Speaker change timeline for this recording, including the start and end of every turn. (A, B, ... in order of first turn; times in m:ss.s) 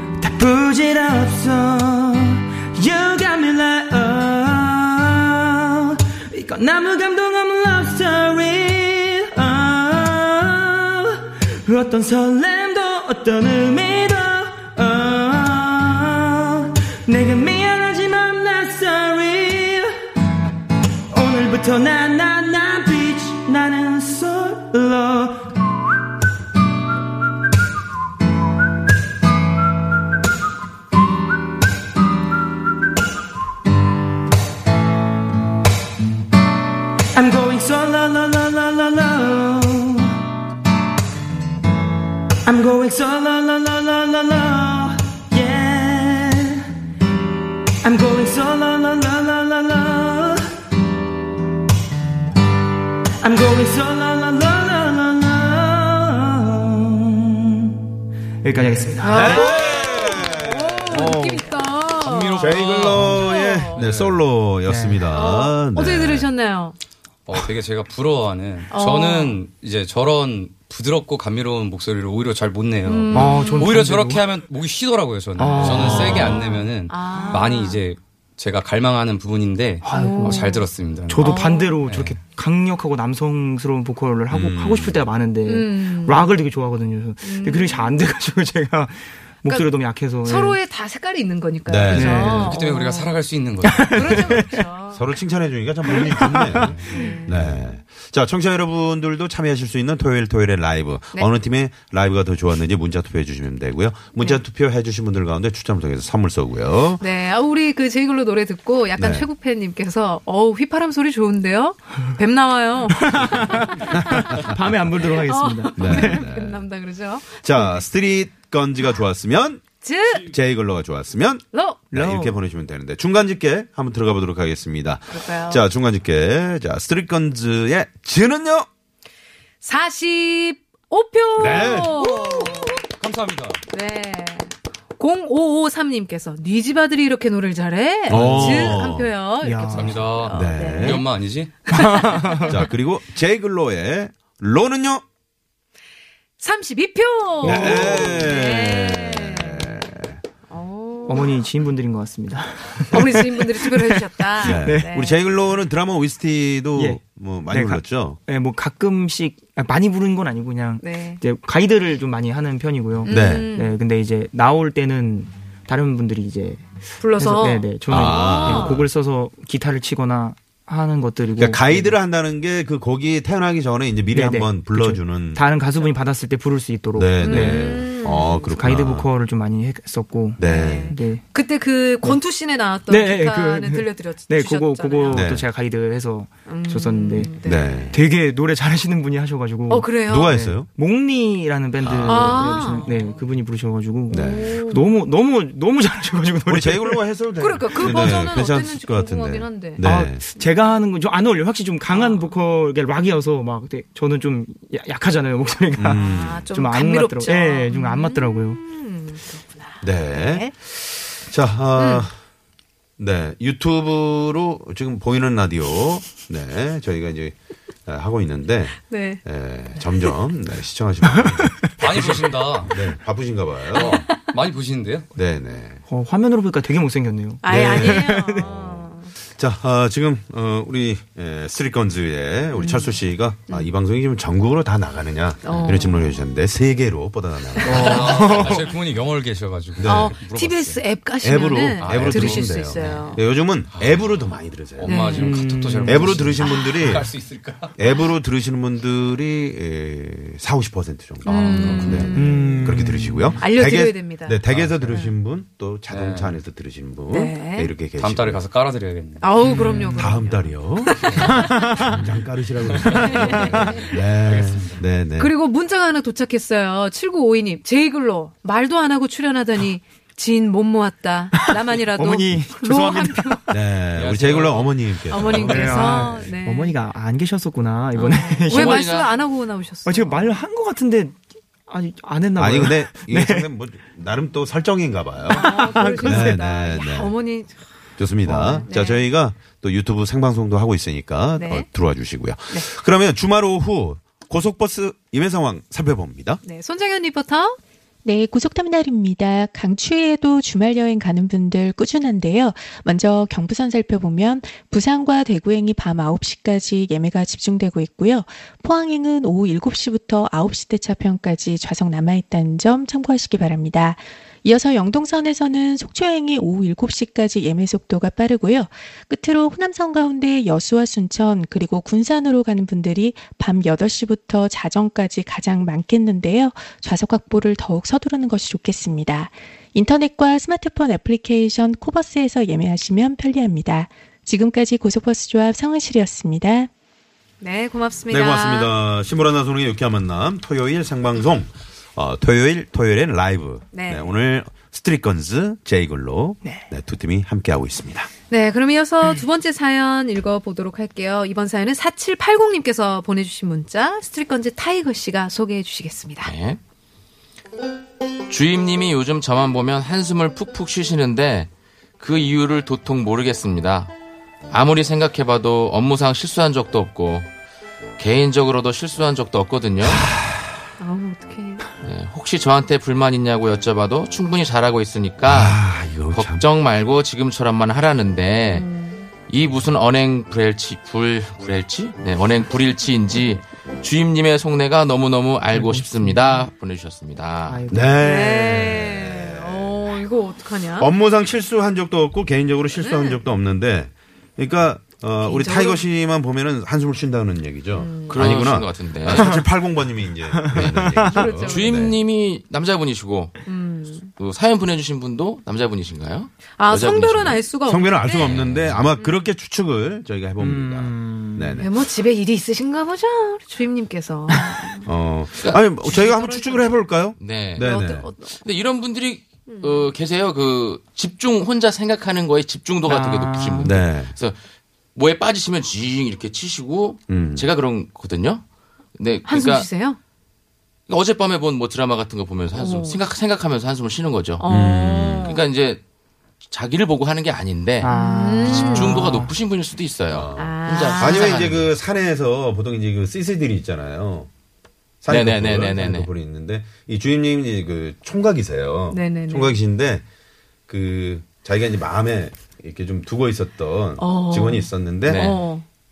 0:00.2-0:19.9 A
0:21.1-0:25.5 A
0:37.1-0:40.2 A
0:42.4-0:46.7 A
0:47.8-0:50.5 A
0:53.2-0:57.8 A
0:58.4-0:59.5 A
0:59.0-1:03.8 B
0:59.1-1:01.5 C
1:02.0-1:04.2 D
1:02.4-1:06.3 C
1:04.6-1:05.0 A
1:05.1-1:06.8 B
1:07.2-1:22.2 D
1:08.7-1:09.4 B
1:12.8-1:13.7 B
1:13.1-1:14.2 A
1:15.4-1:16.4 A
1:15.6-1:16.4 C
1:15.6-1:17.8 B
1:19.8-1:20.4 A
1:19.9-1:20.6 B
1:21.1-1:30.6 A
1:21.2-1:21.8 B
1:24.3-1:25.0 C
1:25.4-1:26.3 B
1:27.2-1:28.0 B
1:29.4-1:29.7 B
1:30.2-1:33.1 B
1:31.6-1:32.5 C
1:31.9-1:32.5 A
1:32.2-1:34.4 D
1:33.6-1:34.6 A
1:33.8-1:35.1 B
1:34.9-1:47.0 C
1:36.0-1:37.2 A
1:36.8-1:37.6 B
1:47.0-1:54.4 B
1:49.0-1:49.3 C
1:53.0-1:56.3 A
1:53.9-1:54.5 C
1:55.0-1:57.8 B
1:55.8-1:56.6 C
1:57.4-2:08.7 C
1:59.8-2:00.3 B
2:01.5-2:01.8 B
2:01.9-2:02.4 A
2:05.1-2:05.6 B
2:09.6-2:12.8 B
2:11.4-2:12.0 C
2:11.4-2:13.6 D
2:13.7-2:21.1 B
2:18.1-2:19.1 C
2:18.1-2:18.8 A
2:19.4-2:20.1 A
2:19.7-2:21.5 D
2:20.3-2:21.0 C
2:21.7-2:22.5 B
2:21.7-2:22.5 A
2:22.4-2:25.0 C
2:26.4-2:29.8 B
2:27.4-2:30.2 C
2:27.4-2:28.2 A
2:30.5-2:31.3 B
2:31.0-2:34.9 A
2:32.9-2:35.2 B
2:34.4-2:38.2 C
2:36.8-2:52.0 A
2:40.8-2:41.2 B
2:43.0-2:43.8 B
2:43.0-2:43.5 C
2:47.0-2:48.8 B
2:47.9-2:48.8 C
2:51.4-2:55.4 C
2:54.1-2:57.7 A
2:56.9-2:59.1 C
2:57.2-2:58.5 B
2:58.5-3:01.2 A
3:00.4-3:01.0 C
3:00.4-3:05.3 B
3:02.9-3:07.3 A
3:05.1-3:05.4 C
3:06.5-3:08.0 B
3:07.4-3:08.0 C
3:07.9-3:17.0 A
3:09.7-3:10.3 B
3:10.0-3:10.7 C
3:11.8-3:12.7 C
3:12.1-3:13.2 B
3:14.1-3:14.9 B
3:14.1-3:14.6 C
3:16.4-3:20.2 C
3:17.4-3:19.8 B
3:17.9-3:18.1 A
3:19.8-3:28.6 A
3:21.9-3:22.3 B
3:25.8-3:26.5 C
3:25.9-3:30.5 B
3:29.8-3:32.1 C
3:31.8-3:32.0 B
3:33.0-3:44.0 C
3:38.9-3:39.2 B
3:41.8-3:42.8 D
3:43.7-3:45.1 D
3:45.1-3:45.8 C
3:45.9-3:48.5 A
3:47.4-3:49.1 B
3:47.4-3:58.5 C
3:52.5-3:52.9 B
3:55.4-3:56.2 B
3:57.6-3:58.6 A
3:57.8-4:00.8 D
3:59.8-4:00.2 C
3:59.8-4:03.2 B
4:01.2-4:05.2 C
4:01.8-4:03.1 D
4:03.7-4:04.0 D
4:04.8-4:07.7 D
4:04.8-4:05.3 B
4:05.2-4:06.3 A
4:05.8-4:07.1 C
4:07.7-4:18.4 C
4:11.2-4:12.6 B
4:11.4-4:12.1 D
4:12.1-4:13.4 A
4:13.4-4:15.1 B
4:14.5-4:14.7 D
4:15.9-4:16.4 D
4:17.1-4:17.7 B
4:18.0-4:19.3 D
4:19.2-4:21.9 B
4:19.4-4:20.2 A
4:20.0-4:25.3 C
4:21.4-4:21.8 A
4:22.8-4:24.8 D
4:22.9-4:23.8 A
4:23.0-4:24.0 B
4:25.2-4:33.5 B
4:31.9-4:33.4 A
4:33.5-4:36.3 C
4:33.9-4:35.4 D
4:35.1-4:36.7 B
4:35.4-4:38.9 A
4:37.9-4:40.3 B
4:38.5-4:39.2 E
4:39.8-4:43.5 A
4:42.4-4:47.1 C
4:45.3-4:47.6 B
4:45.3-4:46.4 A
4:48.0-4:56.4 C
4:48.2-4:48.6 A
4:48.2-4:49.0 B
4:51.4-4:51.7 B
4:56.4-4:57.6 B
4:58.0-5:36.7 F
5:37.4-5:38.7 B
5:38.1-5:48.1 C
5:43.7-5:44.1 B
5:48.3-5:56.3 B
5:56.2-5:56.6 E
5:58.3-6:03.9 E
6:04.5-6:07.3 E
6:08.0-6:10.1 E
6:10.8-6:11.7 B
6:11.8-6:18.7 E
6:15.2-6:16.4 C
6:18.5-6:19.1 B
6:19.3-6:27.6 E
6:25.5-6:26.4 A
6:27.5-6:28.2 A
6:27.7-6:30.0 C
6:28.0-6:30.9 B
6:30.8-6:42.0 C
6:32.8-6:33.2 B
6:35.2-6:35.8 B
6:37.7-6:38.4 B
6:38.1-6:39.3 E
6:39.1-6:39.5 A
6:40.3-6:41.3 A
6:41.0-6:41.9 B
6:41.3-6:43.4 E
6:43.4-6:44.1 B
6:44.2-6:47.5 E
6:46.5-6:49.2 B
6:47.6-6:51.7 C
6:48.1-6:48.8 E
6:50.4-6:51.6 A
6:51.6-6:54.9 B
6:54.8-6:58.1 C
6:55.8-6:56.8 B
6:57.2-6:57.8 E
6:57.6-6:58.4 B
6:58.4-7:04.4 E
6:59.5-6:59.9 B
7:02.8-7:03.8 A
7:03.6-7:04.1 C
7:04.9-7:08.4 E
7:07.1-7:07.4 C
7:08.9-7:09.7 E
7:09.2-7:10.0 B
7:10.9-7:14.4 E
7:12.6-7:13.0 B
7:14.4-7:15.4 B
7:14.4-7:15.4 C
7:15.2-7:15.8 E
7:16.4-7:21.7 E
7:17.8-7:19.3 A
7:17.8-7:19.2 B
7:20.1-7:24.3 C
7:20.3-7:21.4 B
7:25.0-7:30.0 C
7:25.1-7:26.1 E
7:28.9-7:29.5 B
7:30.7-7:35.4 C
7:34.0-7:35.6 B
7:35.0-7:35.4 E